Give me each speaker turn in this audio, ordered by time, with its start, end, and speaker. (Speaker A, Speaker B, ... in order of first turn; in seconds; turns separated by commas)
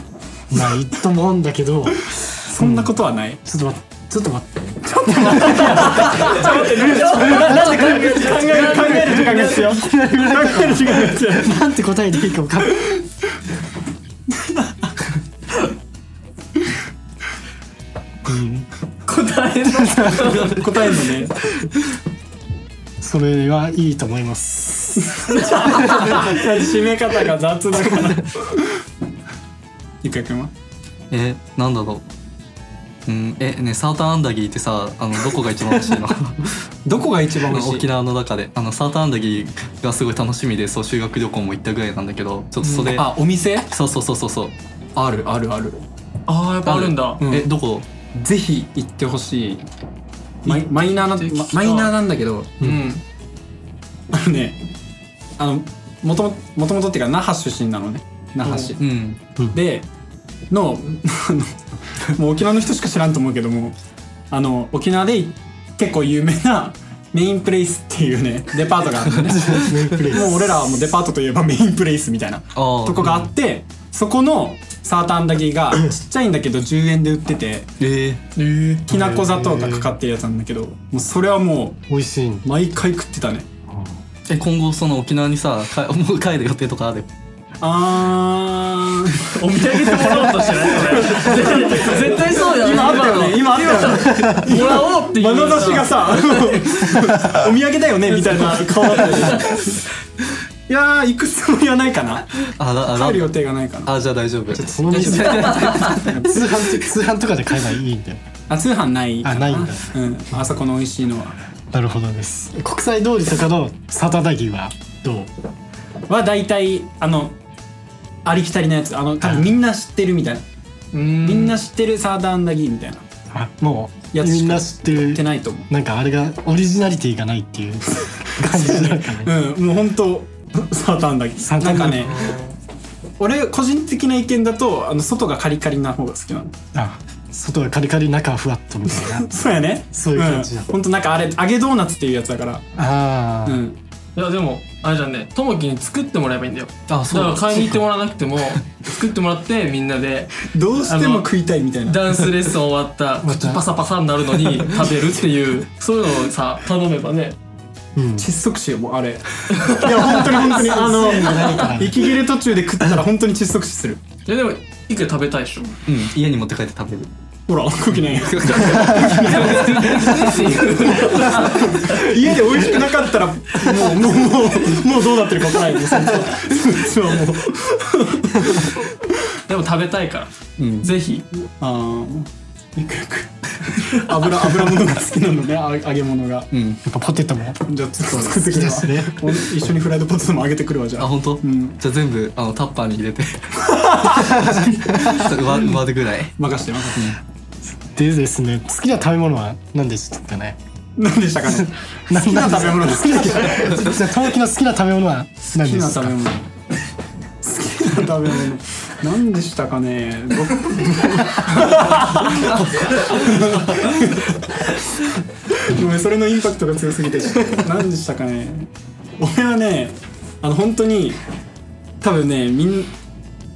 Speaker A: 0.5-12.9, Speaker B: 2.4-3.4, Speaker B: 4.9-11.6, Speaker C: 5.4-9.6, Speaker B: 14.3-14.7, Speaker A: 18.2-18.7, Speaker C: 19.1-20.7, Speaker A: 19.7-20.5, Speaker B: 20.3-21.3, Speaker A: 23.0-26.4, Speaker B: 25.2-28.6, Speaker B: 30.0-30.5, Speaker D: 31.1-32.0, Speaker D: 33.1-36.6, Speaker B: 36.8-37.9, Speaker D: 37.4-44.5, Speaker C: 42.6-43.0, Speaker B: 42.9-43.7, Speaker B: 45.0-45.8, Speaker C: 46.3-47.2, Speaker D: 46.6-47.9, Speaker B: 47.2-47.5, Speaker B: 48.1-49.6, Speaker B: 50.4-52.6, Speaker C: 50.5-51.9, Speaker C: 52.6-53.0, Speaker B: 54.1-54.6, Speaker B: 55.4-58.9, Speaker C: 58.4-58.7, Speaker D: 58.8-59.2, Speaker B: 59.5-59.9, Speaker B: 60.5-63.8, Speaker B: 64.3-77.7, Speaker A: 69.2-70.6, Speaker D: 72.5-73.2, Speaker D: 77.8-78.2, Speaker C: 78.3-78.9, Speaker B: 78.9-81.8, Speaker A: 78.9-79.9, Speaker A: 81.9-82.5, Speaker B: 82.4-83.5, Speaker A: 83.7-84.0, Speaker D: 84.3-87.1, Speaker B: 87.6-99.8, Speaker C: 89.3-96.6, Speaker A: 94.1-94.4, Speaker C: 98.4-99.6, Speaker B: 100.7-103.9, Speaker D: 102.5-106.3, Speaker A: 104.5-108.2, Speaker B: 105.1-106.8, Speaker B: 108.5-111.4, Speaker A: 109.2-109.9, Speaker A: 111.7-115.3, Speaker B: 116.1-117.4, Speaker B: 118.2-120.4, Speaker A: 119.2-119.5, Speaker C: 120.9-121.6, Speaker B: 121.2-123.0, Speaker A: 123.3-129.4, Speaker B: 124.1-125.7, Speaker B: 128.4-132.3, Speaker A: 131.4-132.2, Speaker C: 132.0-132.6, Speaker B: 133.2-136.5, Speaker A: 136.7-139.3, Speaker B: 139.1-142.7, Speaker A: 139.9-140.7, Speaker A: 142.8-143.6, Speaker B: 143.4-143.8, Speaker C: 144.2-151.3, Speaker D: 146.9-147.8, Speaker B: 150.4-152.2, Speaker C: 151.8-157.4, Speaker A: 153.2-153.6, Speaker A: 157.9-158.3, Speaker B: 158.2-164.0, Speaker C: 159.6-161.6, Speaker A: 160.4-162.2, Speaker C: 164.2-165.7, Speaker D: 165.9-167.1, Speaker B: 167.5-178.8, Speaker D: 168.1-170.8, Speaker C: 168.5-172.1, Speaker C: 179.5-180.3, Speaker D: 180.6-180.9, Speaker C: 180.8-181.2, Speaker B: 181.6-186.5, Speaker D: 186.5-186.8, Speaker A: 186.8-189.5, Speaker B: 187.6-191.8, Speaker D: 191.0-197.2, Speaker B: 193.6-194.3, Speaker A: 194.2-195.2, Speaker B: 196.4-197.2, Speaker A: 197.7-200.6, Speaker B: 201.0-203.8, Speaker A: 201.5-206.2, Speaker B: 205.5-206.4, Speaker B: 207.4-214.8, Speaker B: 215.5-221.2, Speaker B: 222.0-222.9